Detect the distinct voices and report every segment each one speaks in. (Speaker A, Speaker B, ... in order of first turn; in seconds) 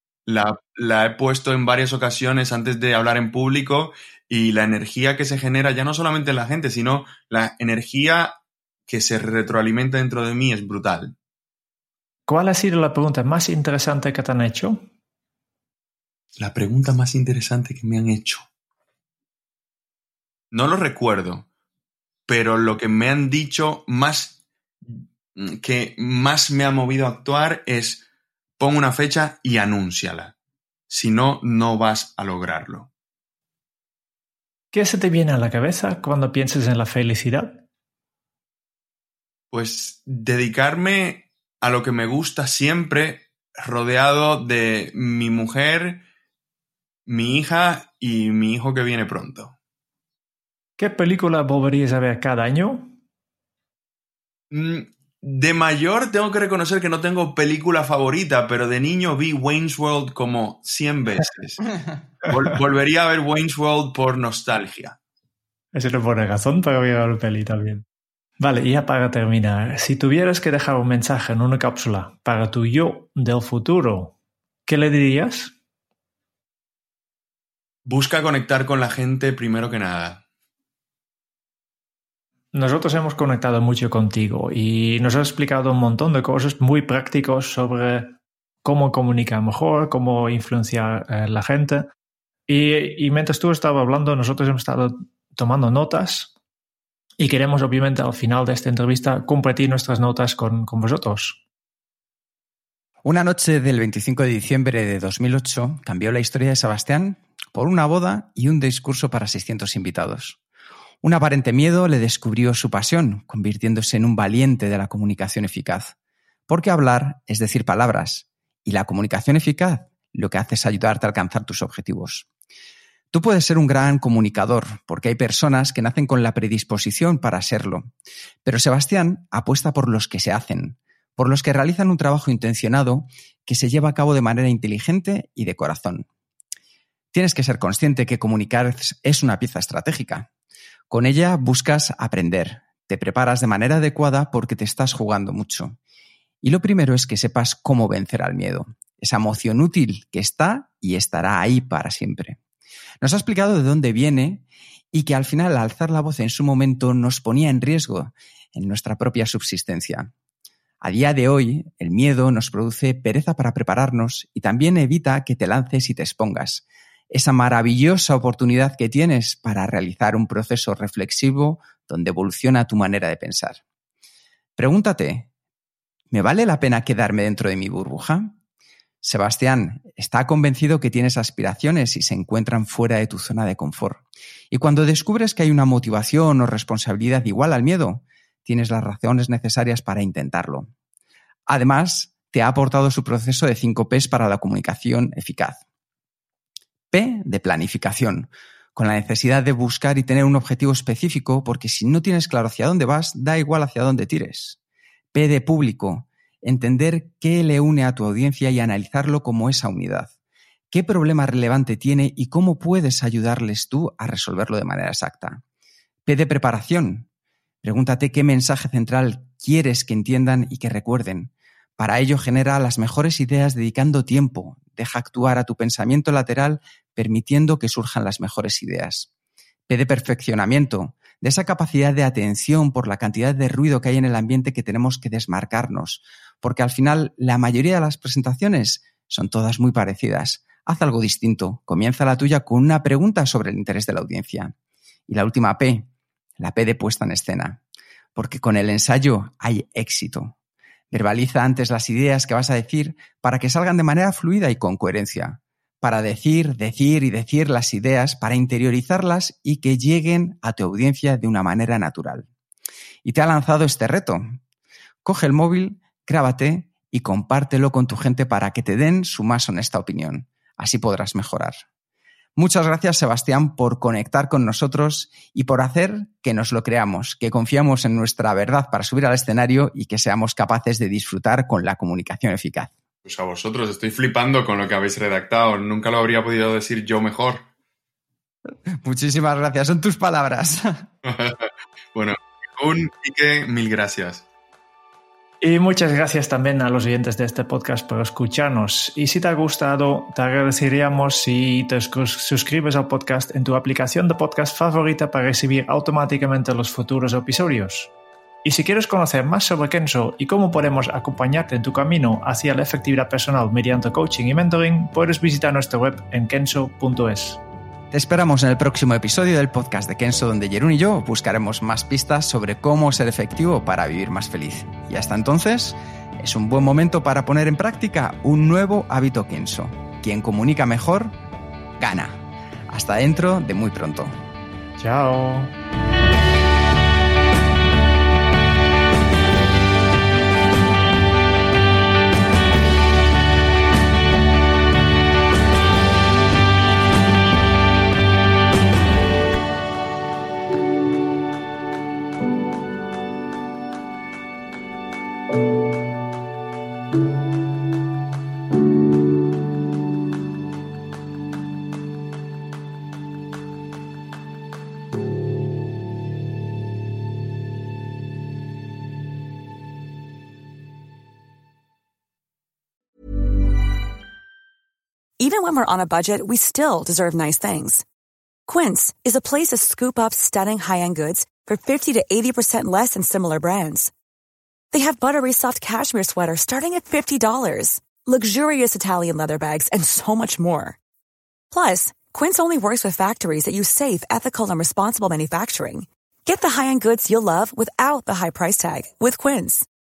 Speaker A: 0.3-11.1, 16.4-18.4, 20.5-21.5, 22.3-28.0, 28.6-30.3, 30.9-32.9, 39.5-46.0, 47.1-49.5, 54.5-61.6, 62.3-65.0, 77.8-80.2, 283.0-287.4, 291.0-294.2
Speaker B: 12.3-14.8, 34.7-37.6, 50.8-52.9, 65.7-67.8, 68.4-74.1, 74.7-75.5, 82.5-91.8, 92.5-96.3, 97.2-101.4, 295.4-307.9, 308.4-317.4, 334.8-335.5
Speaker C: 103.0-110.4, 111.0-115.9, 116.5-122.3, 123.1-127.9, 128.4-136.1, 137.1-140.3, 140.9-145.8, 146.4-152.4, 153.0-160.1, 160.8-173.6, 174.6-175.3, 176.1-178.4, 179.0-190.7, 191.5-195.6, 196.9-204.6, 205.1-210.1, 210.7-215.4, 216.1-217.1, 217.6-229.1, 229.7-244.5, 245.1-247.6, 248.1-250.3, 250.9-262.3, 263.0-264.4, 265.0-271.6, 272.4-282.7, 288.8-290.8, 317.9-331.1, 331.8-334.2
Speaker D: 375.2-377.8, 378.5-383.9, 384.7-390.8, 391.5-399.7